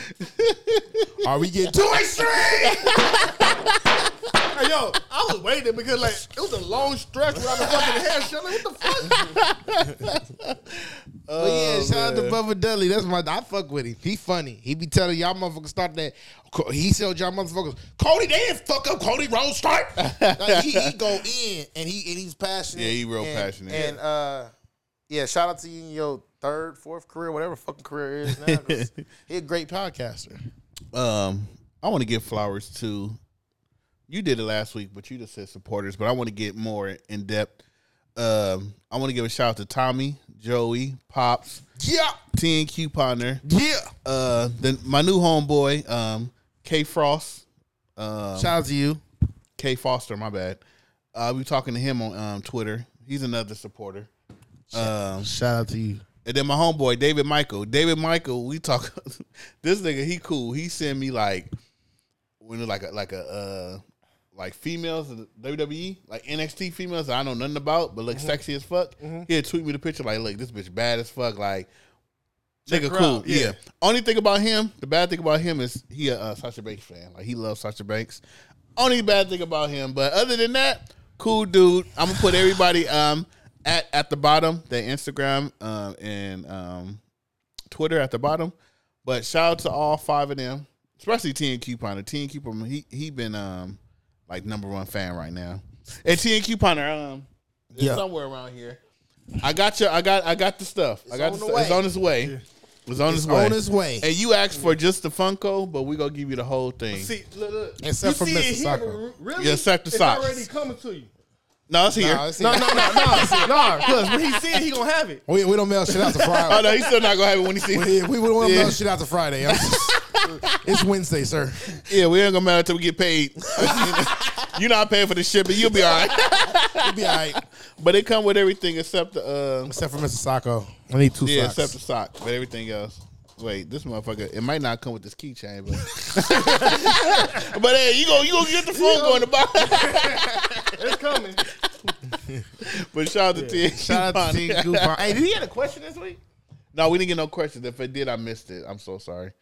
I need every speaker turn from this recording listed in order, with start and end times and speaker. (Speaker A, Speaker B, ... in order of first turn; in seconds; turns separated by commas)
Speaker A: 0.2-1.1, Speaker B: 1.2-3.0, Speaker A: 2.5-3.6, Speaker C: 4.5-9.3, Speaker A: 9.0-12.4, Speaker B: 11.3-24.5, Speaker A: 20.0-20.9, Speaker A: 22.8-23.9, Speaker C: 23.7-24.0, Speaker B: 25.1-30.4, Speaker A: 28.3-28.9, Speaker A: 30.9-33.2, Speaker A: 34.1-37.6, Speaker A: 38.2-41.6, Speaker B: 41.8-42.1, Speaker A: 42.3-43.4, Speaker B: 43.4-43.9, Speaker A: 44.0-47.5, Speaker A: 48.0-48.5, Speaker B: 48.4-49.0, Speaker A: 49.6-50.6, Speaker A: 51.1-54.1, Speaker B: 54.7-56.0, Speaker A: 54.7-55.3, Speaker A: 56.2-61.5, Speaker A: 62.4-63.8, Speaker A: 64.3-71.7, Speaker C: 68.1-68.4, Speaker C: 69.0-69.3, Speaker A: 72.7-78.2, Speaker C: 72.7-73.6, Speaker A: 78.8-87.0, Speaker A: 87.7-98.8, Speaker B: 97.7-98.0, Speaker A: 99.4-102.3, Speaker B: 101.1-101.8, Speaker A: 102.9-107.1, Speaker B: 103.1-104.1, Speaker C: 104.5-104.8, Speaker C: 106.9-111.1, Speaker B: 107.8-109.0, Speaker A: 109.4-110.5, Speaker A: 111.7-113.8, Speaker B: 111.9-113.6, Speaker C: 112.4-115.2, Speaker B: 115.3-116.7, Speaker C: 115.9-116.8, Speaker A: 116.5-118.8, Speaker B: 117.7-121.8, Speaker A: 119.5-120.3, Speaker A: 121.8-127.2, Speaker B: 123.6-124.1, Speaker B: 126.8-127.4, Speaker A: 127.8-129.8, Speaker B: 129.7-131.8, Speaker A: 131.2-140.7, Speaker B: 136.3-136.8, Speaker B: 138.6-140.7, Speaker C: 140.8-141.4, Speaker A: 142.6-145.2, Speaker C: 143.3-143.6, Speaker B: 143.7-146.2, Speaker A: 146.7-149.3